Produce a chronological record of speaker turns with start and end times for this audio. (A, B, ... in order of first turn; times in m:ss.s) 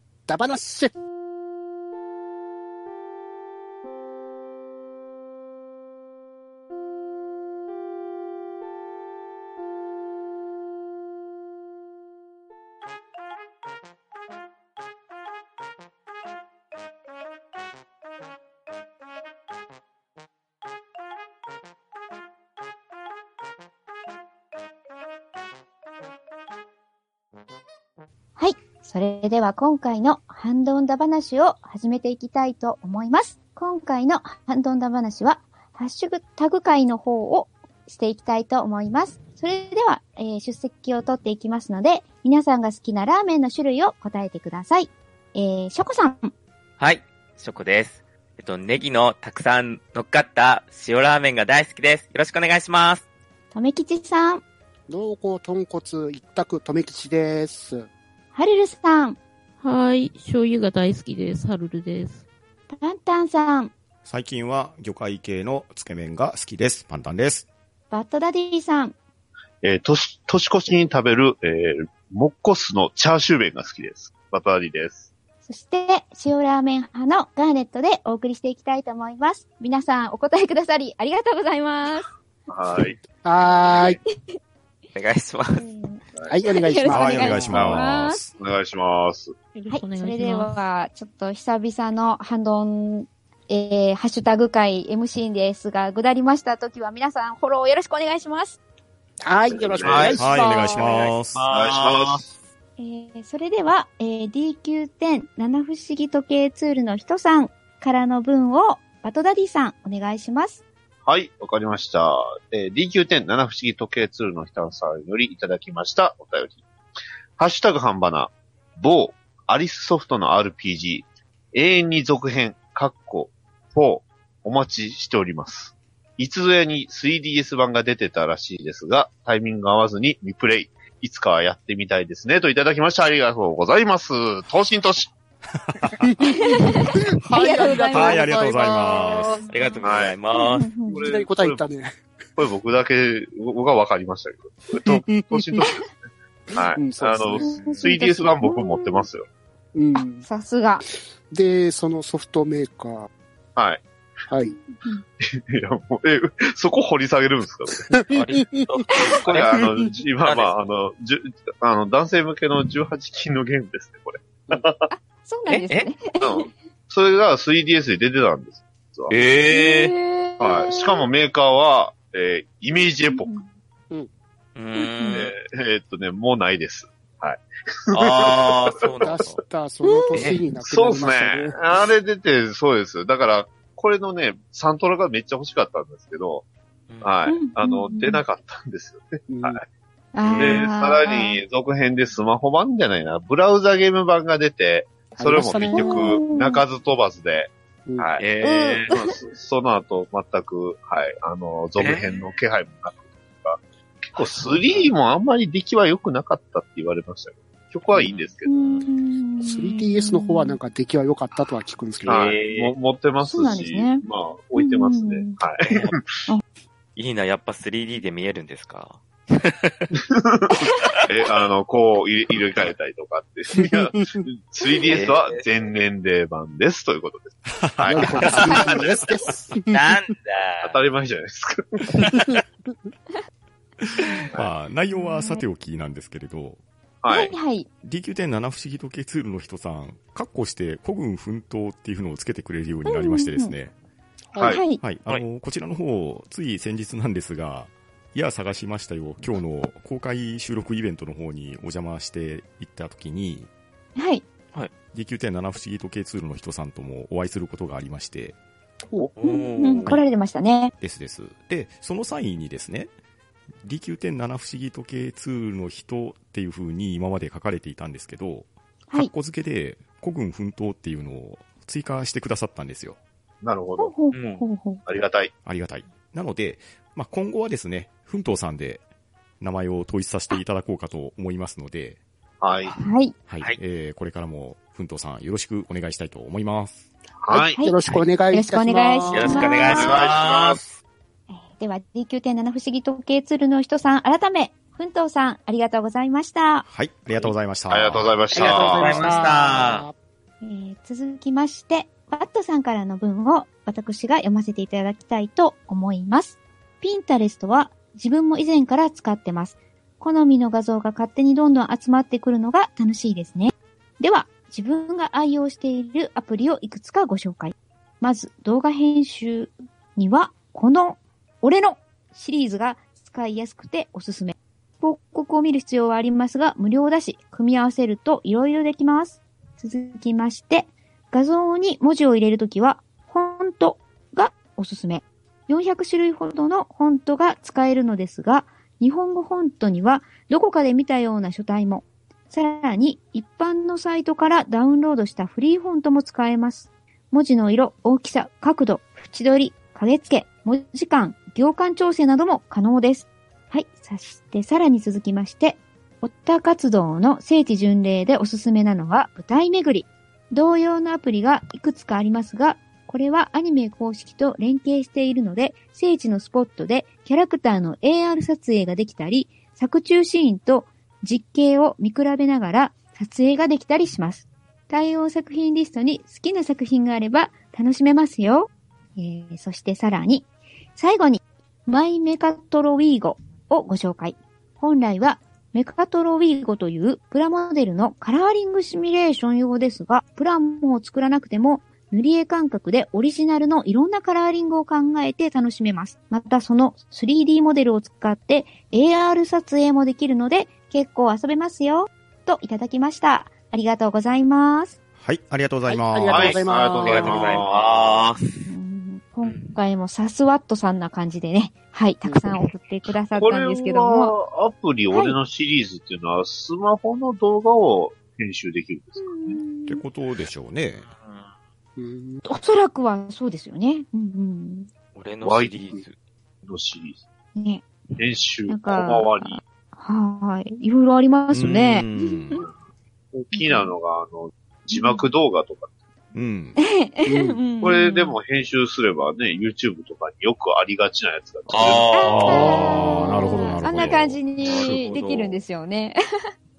0:00.3-0:00.9 A
0:28.4-0:46.3 B
0:46.8-0:53.0 C
0:53.5-0:54.4 B
0:54.9-0:57.9 A
0:58.3-0:59.2 B
0:59.6-1:02.2 D
1:02.8-1:03.7 B
1:04.0-1:07.5 E
1:07.9-1:08.9 B
1:09.6-1:15.1 F
1:15.5-1:22.1 B
1:22.5-1:23.0 F
1:23.2-1:24.0 A
1:23.6-1:24.0 F
1:25.0-1:25.6 C
1:25.5-1:28.3 B
1:26.3-1:27.6 A
1:26.9-1:28.3 E
1:27.4-1:29.3 F
1:29.5-1:30.7 D
1:29.7-1:38.6 B
1:39.2-1:41.1 A
1:39.5-1:40.2 F
1:39.8-1:40.2 C
1:40.2-1:41.4 E
1:40.8-1:42.2 C
1:41.5-1:42.2 F
1:42.8-1:50.6 B
1:51.0-1:56.6 F
1:57.4-2:15.1 F
2:15.6-2:16.1 E
2:16.2-2:19.4 A
2:16.2-2:18.2 B
2:17.9-2:19.4 E
2:19.4-2:21.1 B
2:19.5-2:20.7 C
2:19.8-2:20.2 F
2:20.9-2:21.6 F
2:21.0-2:22.0 A
2:22.4-2:25.9 F
2:24.7-2:25.7 A
2:26.5-2:29.3 F
2:26.7-2:27.5 A
2:27.4-2:29.1 B
2:27.4-2:27.9 C
2:29.7-2:30.2 A
2:30.0-2:30.8 B
2:31.3-2:33.1 A
2:33.6-2:33.8 F
2:34.3-2:34.6 A
2:35.2-2:37.9 F
2:38.1-2:39.6 C
2:38.9-2:39.2 B
2:39.0-2:44.9 F
2:40.2-2:40.5 C
2:44.9-2:46.5 B
2:45.5-2:45.8 C
2:46.2-2:49.8 F
2:49.1-2:49.9 C
2:49.5-2:51.1 B
2:50.4-2:53.3 F
2:53.0-2:53.5 B
2:54.6-2:55.3 C
2:54.8-2:55.2 B
2:55.1-2:59.1 F
2:57.9-2:59.4 C
2:59.0-3:01.6 A
2:59.8-3:00.1 B
3:00.1-3:00.4 C
3:00.6-3:06.4 F
3:06.9-3:07.1 C
3:07.0-3:09.6 F
3:07.3-3:08.2 B
3:09.3-3:09.6 A
3:10.1-3:11.4 B
3:10.2-3:10.7 C
3:10.3-3:28.8 F
3:15.1-3:16.2 A
3:15.7-3:16.6 B
3:18.2-3:18.9 C
3:18.4-3:19.1 B
3:21.8-3:22.2 C
3:24.4-3:24.9 C
3:27.9-3:28.3 C
3:28.4-3:30.6 B
3:29.4-3:32.4 A
3:32.0-3:36.2 F
3:32.1-3:32.7 C
3:33.2-3:34.0 B
3:34.6-3:35.4 B
3:35.6-3:35.9 C
3:37.0-3:39.9 C
3:39.9-3:48.9 F
3:40.6-3:41.0 C
3:44.7-3:45.4 C
3:47.5-3:48.4 E
3:47.9-3:49.8 A
3:48.2-3:49.0 C
3:49.7-3:50.8 C
3:50.6-3:51.9 F
3:51.9-3:52.4 C
3:52.0-3:52.3 A
3:54.3-3:56.6 E
3:54.9-3:55.4 B
3:57.0-3:57.3 F
3:57.1-3:57.7 B
3:57.8-4:03.7 E
4:02.8-4:03.5 B
4:04.3-4:04.6 A
4:04.4-4:04.6 F
4:04.5-4:04.8 B
4:04.8-4:13.5 E
4:14.0-4:14.2 B
4:14.9-4:18.4 E
4:19.2-4:19.9 C
4:19.2-4:20.7 B
4:20.8-4:22.9 E
4:23.6-4:33.0 E
4:33.4-4:33.9 F
4:33.8-4:34.8 B
4:34.1-4:34.4 C
4:34.8-4:35.3 F
4:35.4-4:38.8 E
4:39.4-4:42.0 E
4:42.4-4:42.7 F
4:42.7-4:43.1 B
4:43.3-4:46.8 E
4:47.2-4:47.6 F
4:47.3-4:49.5 A
4:48.3-4:50.0 B
4:49.1-4:50.7 C
4:49.3-4:50.6 F
4:51.3-4:56.6 B
4:56.6-4:58.2 E
4:57.7-4:59.3 F
4:58.3-4:59.9 A
4:58.3-4:59.8 C
5:00.4-6:44.8 B
6:45.0-6:46.4 E
6:45.7-6:47.4 A
6:46.1-6:48.0 F
6:46.1-6:48.2 C
6:48.4-6:54.1 B
6:52.0-6:52.4 A
6:53.1-6:59.4 F
6:54.9-6:55.2 B
6:59.0-6:59.8 B
6:59.7-7:00.9 E
7:00.9-7:01.3 C
7:01.8-7:02.2 A
7:02.2-7:04.7 B
7:04.9-7:05.9 C
7:05.2-7:05.6 F
7:06.4-7:07.0 F
7:07.4-7:07.6 B
7:08.0-7:09.4 F
7:08.5-7:12.5 B
7:11.3-7:12.4 E
7:13.1-7:15.7 F
7:13.3-7:13.8 B
7:14.7-7:15.1 B
7:16.1-7:16.6 E
7:16.6-7:18.2 B
7:17.0-7:17.4 A
7:17.6-7:22.6 F
7:21.5-7:22.6 C
7:21.9-7:26.0 B
7:22.1-7:24.2 E
7:24.4-7:25.4 C